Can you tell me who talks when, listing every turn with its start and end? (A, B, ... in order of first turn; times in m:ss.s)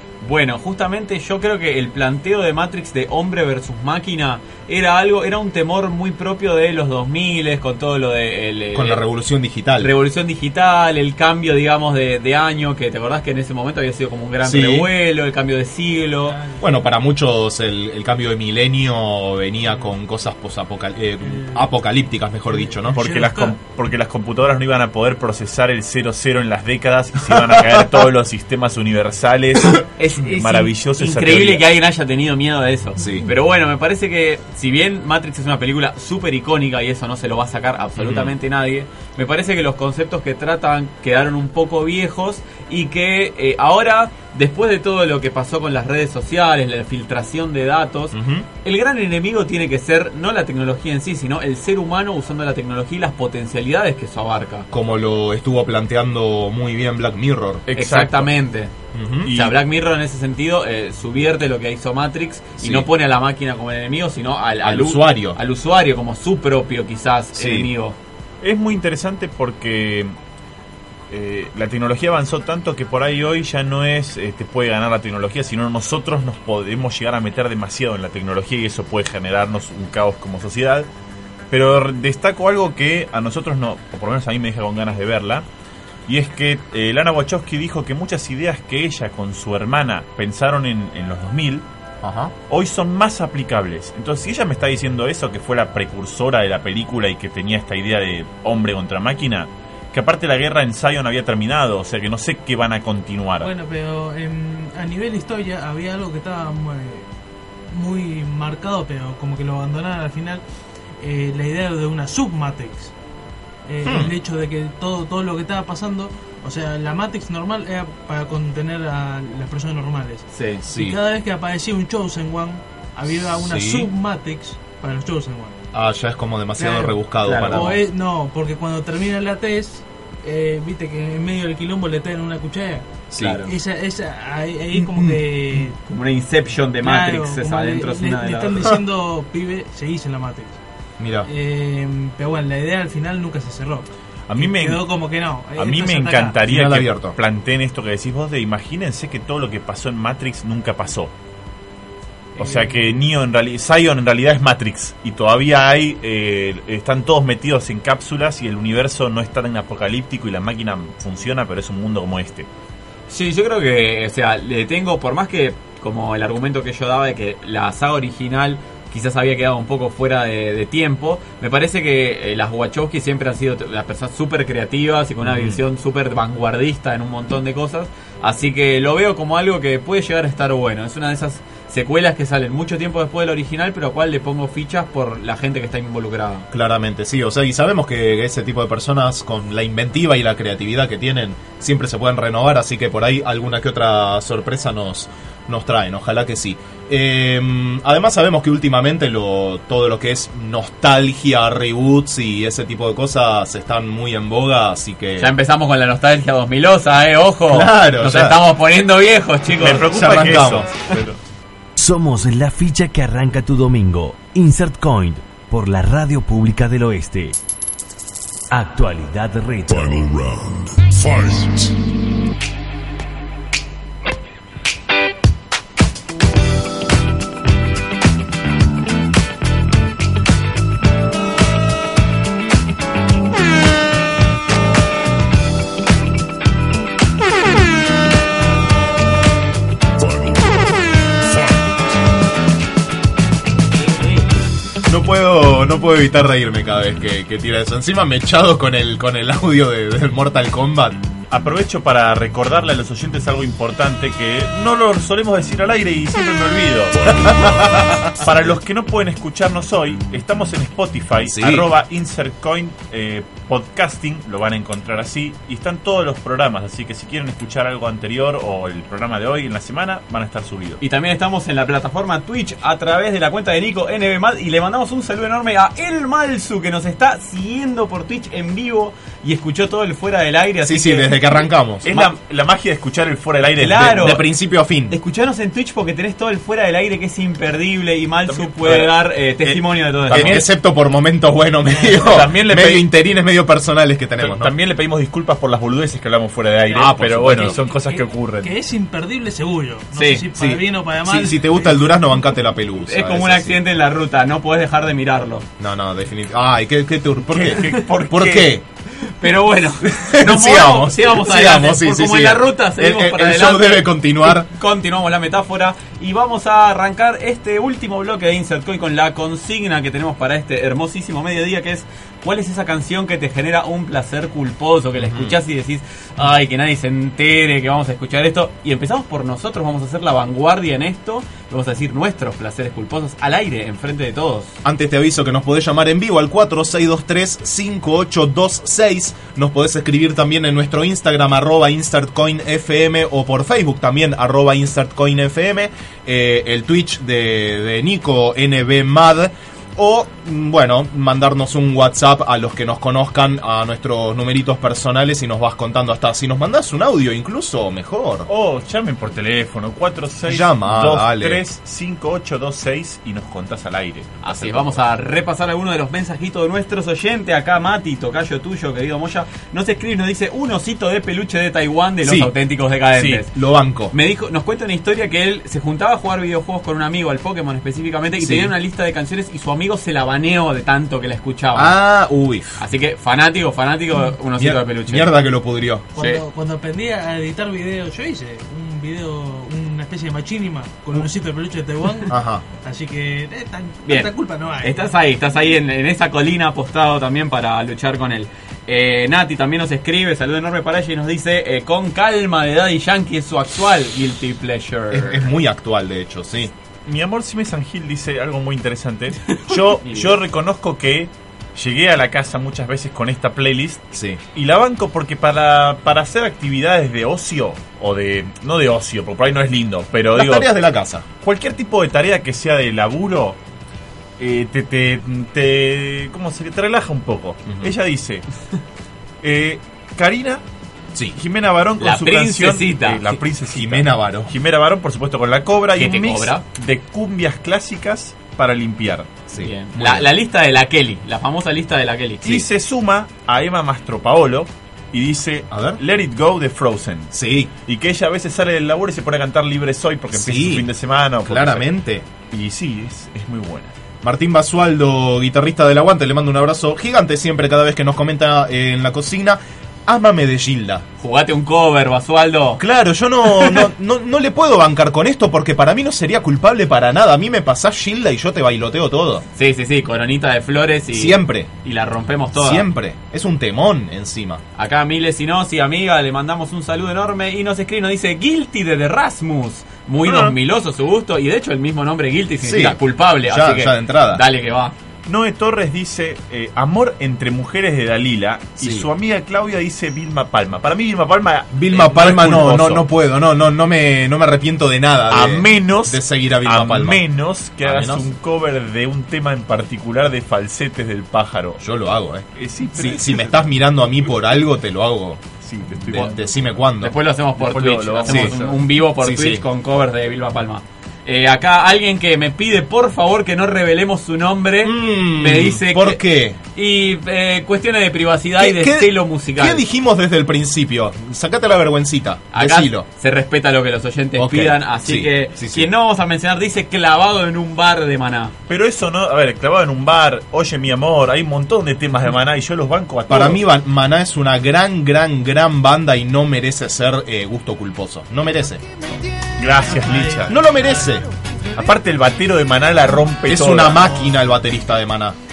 0:00.2-0:09.0 A
0:08.7-0:09.9 B
0:09.8-0:16.4 A
0:14.4-0:14.9 B
0:16.2-0:16.8 C
0:16.6-0:23.1 B
0:21.2-0:21.7 C
0:22.5-0:23.5 C
0:23.0-0:31.6 D
0:27.3-0:27.8 B
0:30.0-0:54.7 A
0:33.0-0:33.3 B
0:38.0-0:38.3 B
0:48.1-0:48.4 B
0:54.7-0:57.6 B
0:57.7-0:58.3 D
0:57.8-0:58.7 A
0:58.9-0:59.3 B
0:59.2-0:59.6 D
0:59.2-1:08.0 A
1:02.6-1:02.9 B
1:04.6-1:05.4 B
1:07.3-1:07.7 B
1:08.4-1:10.1 D
1:11.1-1:20.9 D
1:21.5-1:25.4 D
1:26.1-1:31.6 D
1:32.0-1:32.3 B
1:32.5-1:43.5 D
1:43.4-1:47.1 C
1:47.7-1:50.4 C
1:51.0-1:52.9 C
1:53.7-2:05.6 C
1:53.8-1:54.1 B
2:00.3-2:00.6 A
2:00.6-2:01.0 B
2:03.4-2:03.9 B
2:05.7-2:07.8 B
2:06.6-2:15.8 C
2:07.2-2:07.8 A
2:13.1-2:13.4 B
2:13.2-2:13.5 A
2:14.7-2:15.6 B
2:15.8-2:18.6 A
2:16.8-2:20.6 C
2:21.0-2:21.3 B
2:21.2-2:26.4 C
2:24.3-2:25.0 D
2:25.5-2:31.1 D
2:26.4-2:27.2 B
2:32.4-2:42.5 D
2:43.1-3:06.5 A
2:55.2-2:55.6 B
3:06.5-3:25.3 B
3:25.2-3:29.9 A
3:27.5-3:28.4 B
3:29.6-3:31.2 D
3:29.8-3:30.7 B
3:31.8-3:37.4 E
3:38.5-3:40.0 E
3:39.7-3:41.8 F
4:00.0-4:02.0 F
4:04.9-4:11.0 B
4:11.3-4:17.6 D
4:17.2-4:17.7 F
4:17.4-4:17.9 B
4:18.2-4:30.8 D
4:21.2-4:21.7 B
4:30.8-4:41.1 A
4:40.6-4:41.9 B
4:41.8-4:44.2 D
4:43.6-4:44.2 A
4:43.6-4:44.9 B
4:44.9-4:50.4 A
4:48.3-4:50.4 D
4:50.1-4:54.5 B
4:51.9-4:52.8 D
4:54.2-4:58.5 D
4:56.7-4:57.6 B
4:57.4-5:01.5 C
4:59.9-5:00.2 A
5:00.3-5:03.6 B
5:02.9-5:05.4 A
5:05.6-5:08.6 B
5:07.3-5:08.4 D
5:07.6-5:08.4 A
5:08.9-5:34.5 A
5:09.8-5:14.5 B
5:25.0-5:25.4 B
5:34.6-5:58.3 B
5:58.3-6:04.8 D
6:00.2-6:01.4 B
6:04.2-6:13.3 A
6:12.0-6:12.3 B
6:13.0-6:13.2 D
6:13.3-6:13.9 B
6:13.9-6:21.7 A
6:18.2-6:18.5 B
6:21.5-6:22.6 B
6:22.6-6:25.1 A
6:24.4-6:25.9 B
6:25.9-6:34.9 C
6:26.0-6:26.2 A
6:32.1-6:32.4 B
6:33.8-6:45.3 A
6:44.9-6:46.5 B
6:46.8-7:00.5 D
6:49.8-6:50.2 A
6:53.9-6:54.2 B
7:00.1-7:01.0 B
7:01.2-7:03.4 D
7:04.2-7:08.2 D
7:07.5-7:07.7 B
7:09.2-7:10.4 D
7:11.1-7:19.1 D
7:11.8-7:13.2 A
7:13.5-7:14.3 B
7:15.8-7:16.4 A
7:19.3-7:20.1 B
7:19.4-7:22.4 A
7:22.2-7:27.1 D
7:25.5-7:25.8 B
7:27.1-7:27.5 B
7:27.6-7:31.7 D
7:30.1-7:30.7 B
7:31.2-7:32.0 B
7:32.2-7:33.7 D
7:34.0-7:40.8 B
7:41.0-7:42.6 A
7:42.6-7:49.2 B
7:43.2-7:43.7 A
7:49.3-7:52.7 A
7:50.9-7:51.5 B
7:52.4-7:54.4 B
7:54.6-8:04.7 A
8:00.0-8:00.4 D
8:02.4-8:04.2 B
8:05.0-8:12.8 D
8:08.6-8:08.9 B
8:11.5-8:17.0 B
8:15.1-8:21.6 D
8:17.6-8:18.1 B
8:21.6-8:25.3 B
8:22.4-8:23.4 D
8:25.4-8:26.4 D
8:25.9-8:26.9 B
8:26.8-8:36.0 A
8:27.4-8:28.6 D
8:28.0-8:28.3 B
8:29.0-8:29.4 B
8:34.6-8:36.4 B
8:36.5-8:39.6 A
8:38.4-8:42.8 B
8:42.3-8:48.3 A
8:44.1-8:45.7 B
8:48.5-8:53.4 D
8:53.1-8:58.6 B
8:59.4-9:00.4 D
8:59.7-9:00.3 C
9:00.3-9:01.1 B
9:01.5-9:03.8 D
9:03.3-9:05.2 B